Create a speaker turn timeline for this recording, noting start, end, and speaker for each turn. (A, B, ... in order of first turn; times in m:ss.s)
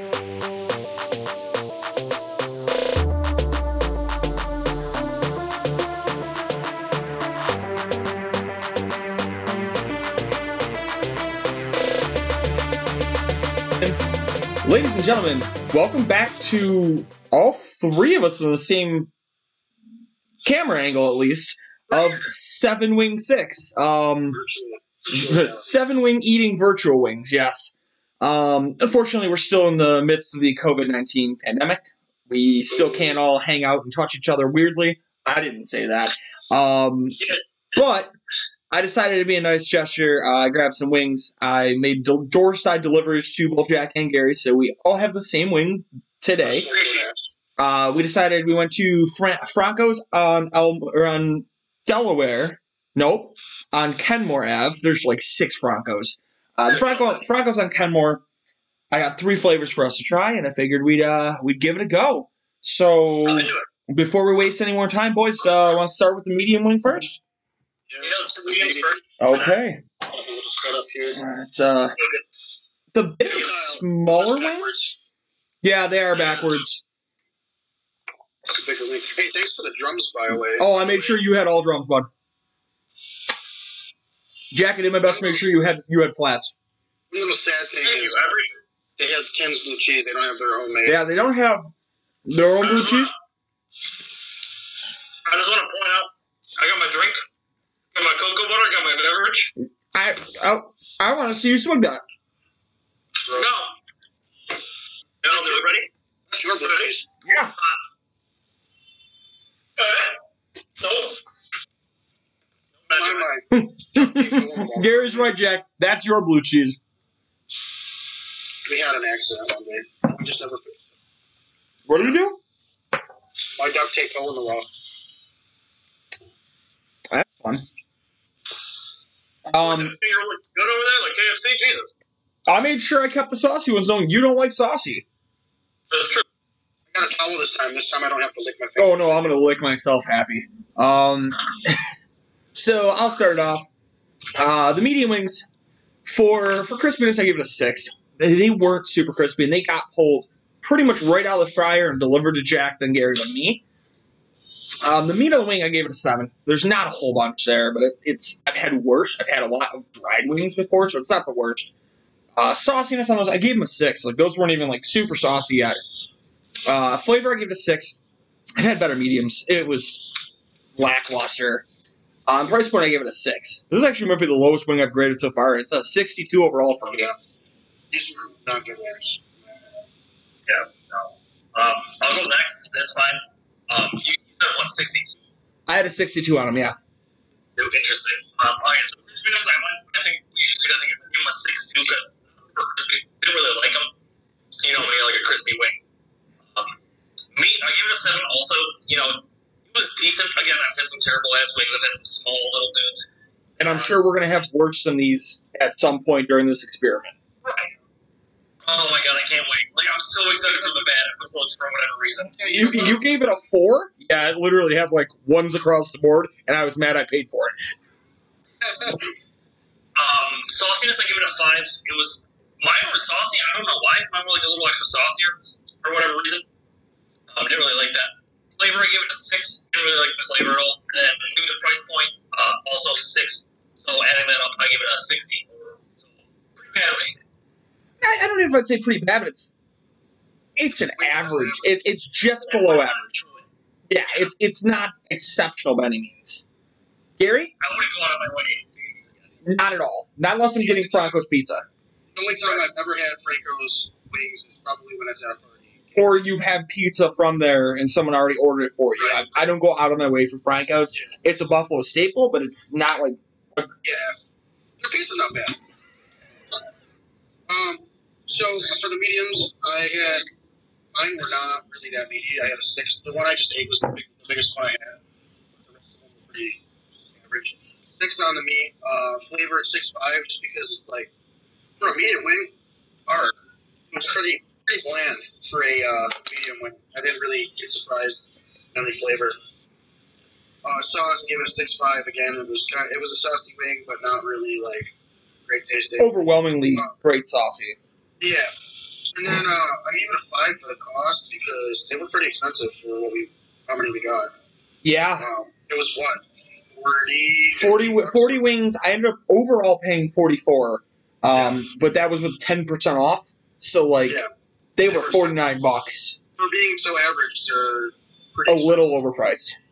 0:14.6-0:19.1 A
0:20.4-0:24.4 A
0:22.0-0:22.2 B
0:24.3-0:25.8 C
0:25.1-0:37.2 A
0:32.7-0:33.2 C
0:37.7-0:38.1 A
0:38.7-0:46.7 A
0:46.4-0:47.2 C
0:46.7-0:47.1 B
0:47.6-0:58.2 A
0:56.7-0:57.2 B
0:58.9-1:07.2 A
1:03.3-1:03.7 B
1:07.9-1:09.0 C
1:08.0-1:09.6 B
1:09.2-1:09.8 A
1:10.1-1:11.2 C
1:11.1-1:12.0 A
1:12.0-1:12.2 B
1:12.9-1:14.7 A
1:13.3-1:15.0 C
1:13.3-1:13.8 B
1:15.6-1:16.8 A
1:16.2-1:16.6 B
1:18.5-1:21.2 C
1:20.6-1:22.1 A
1:24.5-1:26.5 A
1:25.0-1:25.6 C
1:27.1-1:28.3 C
1:27.8-1:28.6 B
1:29.0-1:31.0 C
1:30.8-1:31.7 A
1:32.3-1:33.1 A
1:32.6-1:33.1 B
1:35.3-1:37.2 B
1:37.9-1:39.5 B
1:39.9-1:42.0 A
1:43.2-1:43.5 C
1:43.4-1:43.7 B
1:45.2-1:45.9 B
1:45.3-1:45.7 C
1:46.3-1:47.1 C
1:46.6-1:47.8 B
1:47.2-1:47.5 A
1:49.8-1:50.2 B
1:50.8-1:51.2 B
1:52.8-1:53.3 B
1:52.9-1:55.3 C
1:53.5-1:56.8 A
1:58.6-2:00.8 C
2:01.9-2:02.4 A
2:03.6-2:04.7 C
2:07.1-2:07.7 A
2:09.5-2:10.0 A
2:09.6-2:11.9 B
2:12.5-2:15.0 A
2:15.9-2:16.2 B
2:16.9-2:19.4 C
2:18.8-2:21.8 A
2:22.5-2:23.7 A
2:24.4-2:25.5 A
2:26.0-2:33.6 A
2:34.8-2:41.7 A
2:42.4-2:45.8 A
2:46.7-2:48.0 A
2:48.6-2:50.0 A
2:50.8-2:51.6 A
2:52.3-2:57.1 A
2:57.9-2:59.4 C
3:00.5-3:05.2 B
3:05.7-3:06.8 A
3:07.6-3:13.9 B
3:14.6-3:15.8 B
3:17.3-3:23.9 B
3:23.6-3:27.2 A
3:27.4-3:27.7 B
3:28.6-3:32.8 B
3:30.6-3:30.9 C
3:32.3-3:33.2 C
3:32.5-3:37.6 A
3:38.6-3:39.1 C
3:40.0-3:46.4 B
3:47.3-3:56.0 B
3:56.5-3:57.2 B
3:58.0-3:59.5 A
4:00.6-4:03.2 A
4:00.8-4:01.7 C
4:02.2-4:03.5 B
4:03.9-4:06.5 A
4:07.2-4:07.5 A
4:07.6-4:09.2 B
4:09.4-4:11.6 A
4:10.6-4:11.2 C
4:12.2-4:16.2 C
4:16.0-4:23.7 A
4:19.0-4:19.4 C
4:23.8-4:24.1 C
4:24.8-4:25.6 C
4:27.5-4:30.3 C
4:30.9-4:35.0 C
4:35.6-4:36.6 C
4:37.2-4:41.1 C
4:41.8-4:42.5 C
4:43.1-4:43.4 C
4:43.9-4:49.4 C
4:50.6-4:54.9 C
4:55.5-4:56.9 C
4:56.0-4:57.8 A
4:58.2-4:58.5 C
4:59.1-5:04.3 C
5:04.8-5:05.3 A
5:05.2-5:08.4 C
5:07.6-5:14.2 A
5:11.3-5:11.6 C
5:14.8-5:16.2 A
5:14.9-5:15.4 C
5:16.4-5:18.9 C
5:18.5-5:19.6 A